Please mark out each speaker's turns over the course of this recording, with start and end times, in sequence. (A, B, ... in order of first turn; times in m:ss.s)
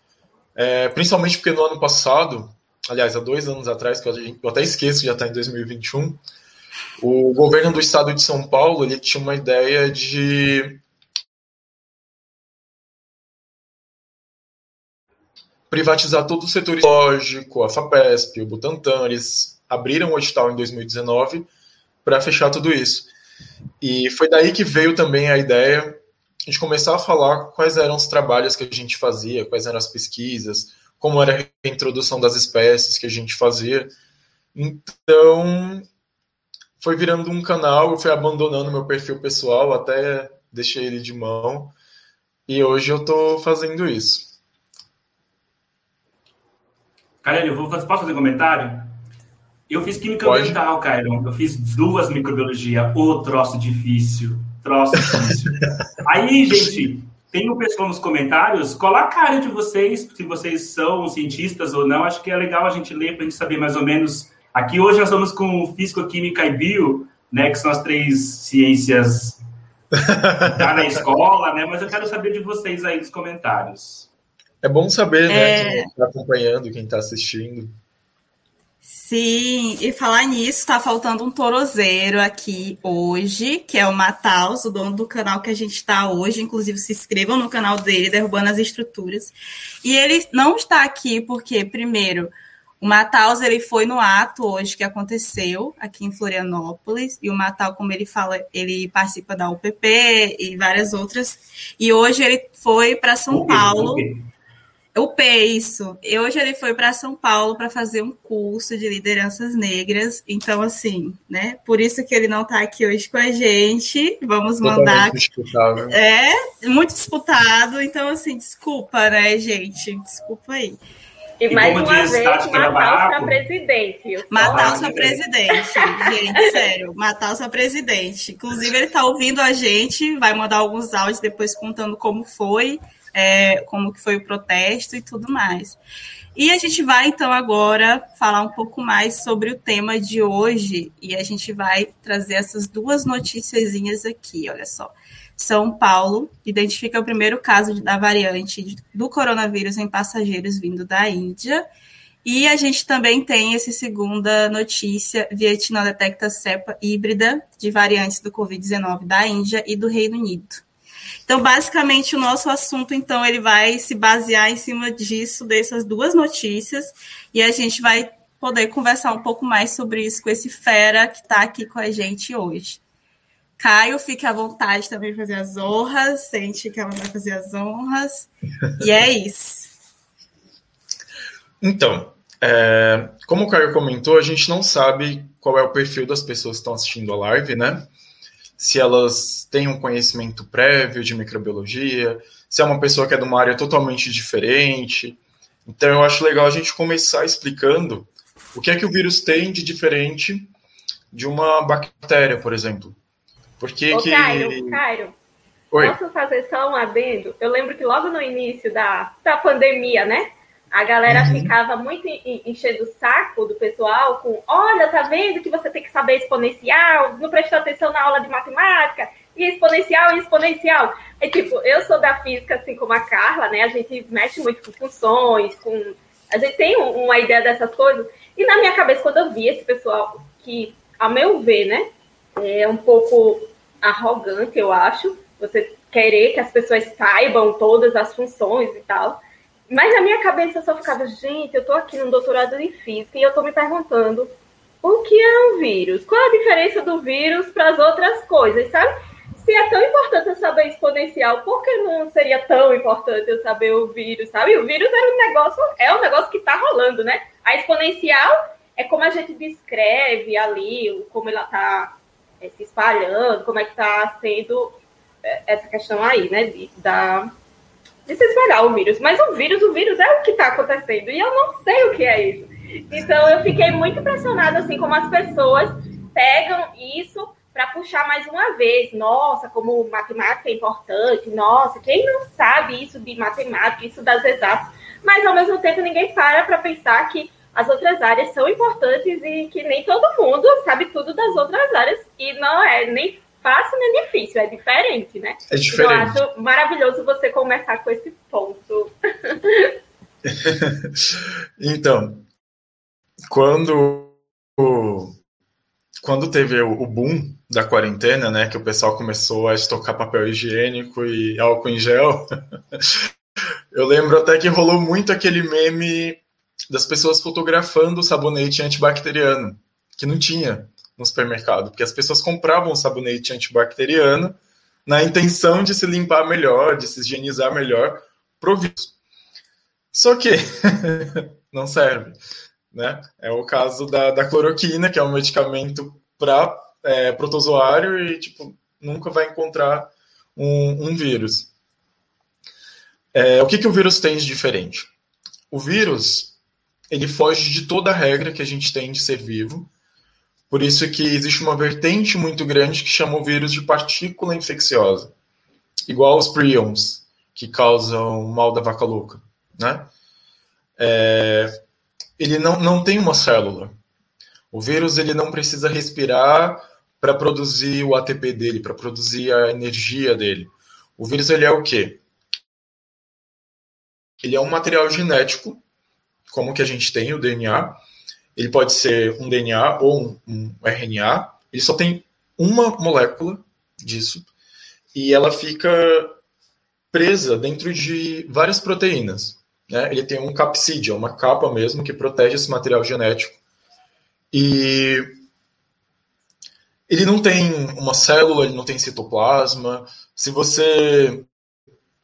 0:00.6-0:06.2 A
0:07.0-0:10.8 A
0:15.7-0:21.5 A
0:22.0-0:23.1 A
0:23.8-0:33.9 A
0:34.6-0:35.9 A
0:36.8-0:41.8 A
0:42.5-0:44.4 A
0:47.2-0:48.9 B
0:49.7-1:09.4 B
0:50.2-0:50.6 A
1:09.9-1:10.8 A
1:10.4-1:14.1 B
1:14.6-1:17.7 A
1:15.3-1:15.9 C
1:18.8-1:44.1 C
1:43.3-1:44.2 B
1:45.0-1:55.2 C
1:54.6-1:56.0 A
1:55.9-2:00.8 C
2:01.4-2:05.1 D
2:01.5-2:03.4 B
2:04.3-2:15.8 C
2:04.4-2:05.2 B
2:16.4-2:31.7 C
2:32.2-2:40.6 C
2:41.3-2:52.8 C
2:53.6-2:59.7 C
3:01.6-3:07.9 A
3:08.6-3:20.5 A
3:21.1-3:23.0 A
3:23.6-3:24.8 A
3:23.9-3:25.2 D
3:25.8-4:04.3 D
3:31.1-3:31.5 A
4:04.8-4:27.3 D
4:28.1-4:59.7 D
4:55.5-4:56.2 A
5:00.2-5:02.3 A
5:03.3-5:05.2 A
5:06.0-5:13.1 A
5:13.7-5:29.0 A
5:29.9-5:32.2 A
5:32.7-5:41.5 A
5:43.1-5:44.9 A
5:45.5-5:46.4 A
5:46.9-5:49.7 A
5:50.5-5:55.1 A
5:55.9-5:59.9 A
6:00.8-6:01.5 A
6:02.2-6:03.8 A
6:04.5-6:12.0 A
6:14.2-6:15.6 A
6:16.3-6:17.8 A
6:18.4-6:24.3 A
6:24.9-6:26.2 A
6:26.9-6:33.4 A
6:34.3-6:35.2 A
6:36.9-6:41.3 A